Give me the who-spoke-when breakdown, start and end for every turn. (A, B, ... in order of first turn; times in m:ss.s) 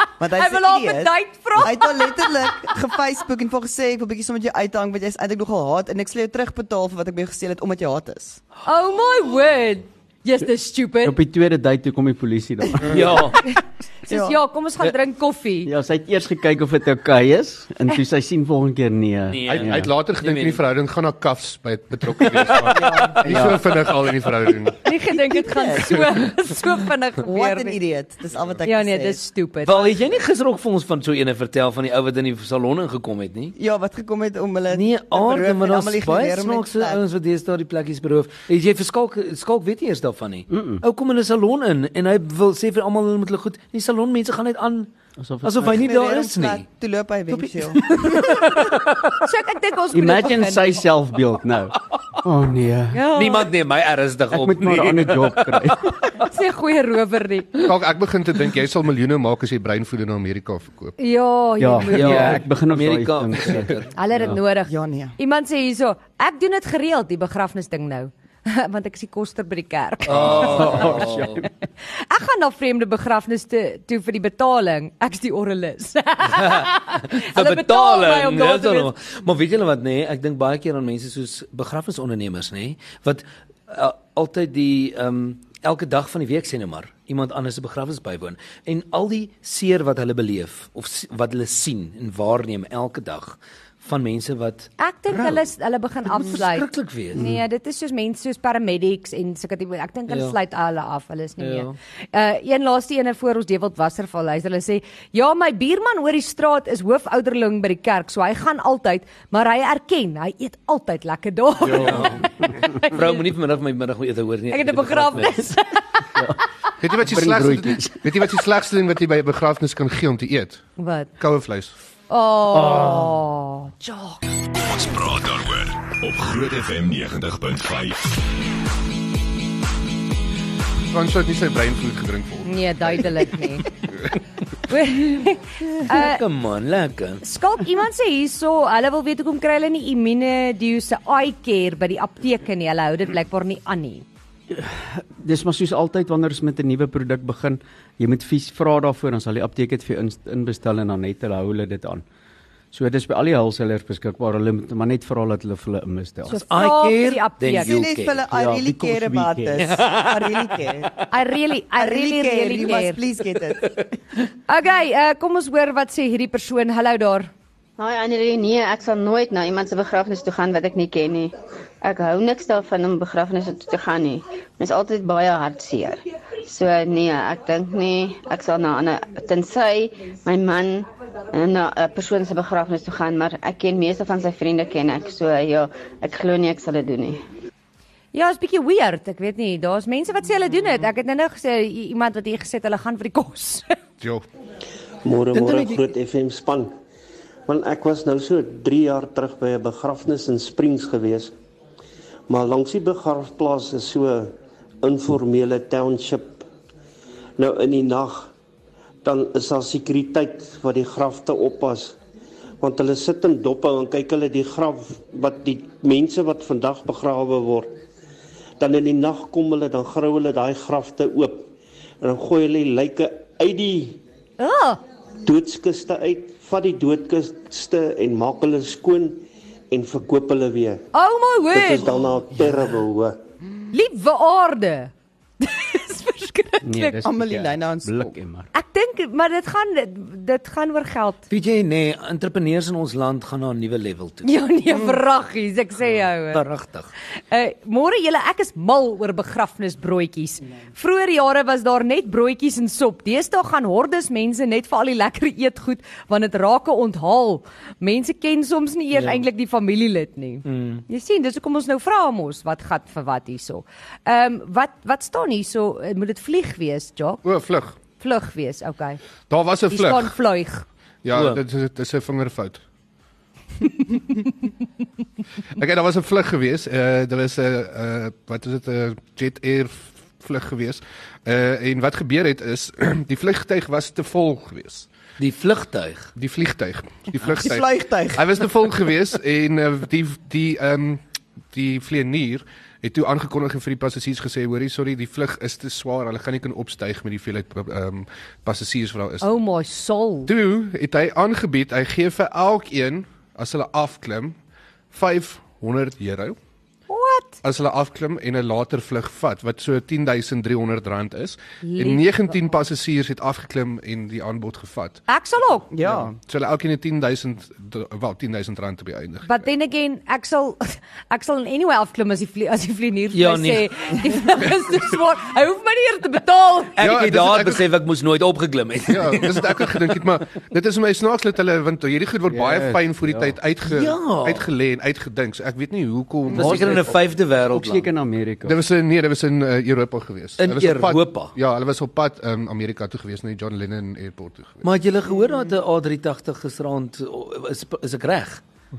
0:00.2-0:08.4 A
0:00.3-0:02.1 B
0:08.6-0:11.2 B
0:11.0-0:13.2 C
0:12.9-0:13.4 D
0:14.1-0:14.4 A
0:14.1-0:15.7 B
0:15.6-0:19.9 C
0:19.3-0:20.6 D
0:19.5-0:24.8 E
0:22.7-0:23.4 A
0:23.2-0:23.7 C
0:24.8-0:27.8 B
0:25.1-0:26.2 A
0:27.2-0:29.2 A
0:28.6-0:30.0 B
0:29.7-0:33.6 D
0:33.6-0:37.0 A
0:34.7-0:44.9 D
0:40.5-0:40.8 C
0:45.2-0:45.8 C
0:45.4-0:46.6 D
0:45.6-0:48.7 A
0:47.3-0:49.2 D
0:49.2-0:50.9 B
0:49.9-0:53.1 C
0:52.9-0:53.5 B
0:53.1-0:55.8 D
0:54.3-0:56.0 C
0:56.2-0:57.6 B
0:57.6-1:01.0 E
1:01.0-1:02.4 B
1:01.6-1:04.4 C
1:01.9-1:03.9 D
1:04.0-1:10.7 B
1:04.7-1:05.2 A
1:10.1-1:11.4 D
1:10.1-1:11.1 E
1:10.3-1:11.5 C
1:12.0-1:18.9 B
1:16.3-1:35.4 D
1:34.8-1:53.2 B
1:36.1-1:37.2 D
1:37.2-1:37.4 C
1:40.1-1:40.4 D
1:41.4-1:41.8 D
1:51.6-1:52.1 C
1:51.7-1:52.2 D
1:52.9-1:55.4 D
1:54.5-1:56.0 B
1:56.8-2:00.6 E
1:57.0-1:58.3 C
2:00.8-2:01.1 B
2:01.2-2:01.7 E
2:02.1-2:04.2 B
2:02.6-2:03.1 C
2:04.4-2:08.2 F
2:10.9-2:13.1 E
2:12.4-2:13.7 B
2:14.7-2:16.2 B
2:15.8-2:17.2 D
2:17.2-2:24.0 B
2:24.5-2:32.0 C
2:32.7-2:36.4 C
2:36.3-2:37.8 B
2:36.3-2:38.2 D
2:37.6-2:41.0 A
2:38.3-2:39.8 C
2:39.6-2:40.7 D
2:41.1-2:43.0 B
2:41.8-2:43.8 A
2:44.5-2:47.3 B
2:47.8-3:07.2 G
3:08.1-3:13.7 B
3:14.0-3:14.3 E
3:15.0-3:16.7 H
3:15.3-3:15.8 D
3:17.5-3:21.3 H
3:22.3-3:26.4 H
3:27.4-3:28.3 H
3:29.0-3:32.0 H
3:32.6-3:37.8 H
3:38.6-3:41.5 H
3:42.0-3:44.0 H
3:44.4-3:44.8 B
3:45.2-3:50.8 H
3:50.9-3:52.0 B
3:51.5-3:53.2 H
3:53.7-3:57.0 B
3:56.6-3:58.5 C
3:57.0-3:58.1 A
3:58.5-4:01.3 B
4:01.3-4:04.3 D
4:04.2-4:06.4 B
4:05.9-4:06.9 D
4:07.3-4:27.2 B
4:18.9-4:19.2 D
4:20.4-4:20.8 D
4:27.2-4:27.8 E
4:28.0-4:29.0 B
4:29.3-4:30.2 E
4:29.7-4:30.6 B
4:31.0-4:32.6 E
4:31.1-4:31.4 D
4:35.6-4:44.9 E
4:45.2-4:46.1 D
4:46.2-4:51.0 E
4:47.2-4:48.4 A
4:51.5-4:59.3 E
4:59.2-5:00.3 B
5:00.3-5:04.4 E
5:04.9-5:06.4 E
5:06.9-5:07.4 B
5:07.4-5:15.0 E
5:11.6-5:12.5 B
5:15.1-5:15.7 B
5:15.7-5:16.2 A
5:15.8-5:19.5 E
5:19.2-5:26.8 B
5:23.1-5:24.1 D
5:26.8-5:30.0 D
5:26.8-5:27.6 E
5:28.9-5:36.9 E
5:32.3-5:33.4 C
5:33.7-5:34.5 D
5:36.3-5:37.9 D
5:36.3-5:38.6 C
5:38.4-5:44.6 E
5:40.4-5:41.3 D
5:44.6-5:48.4 D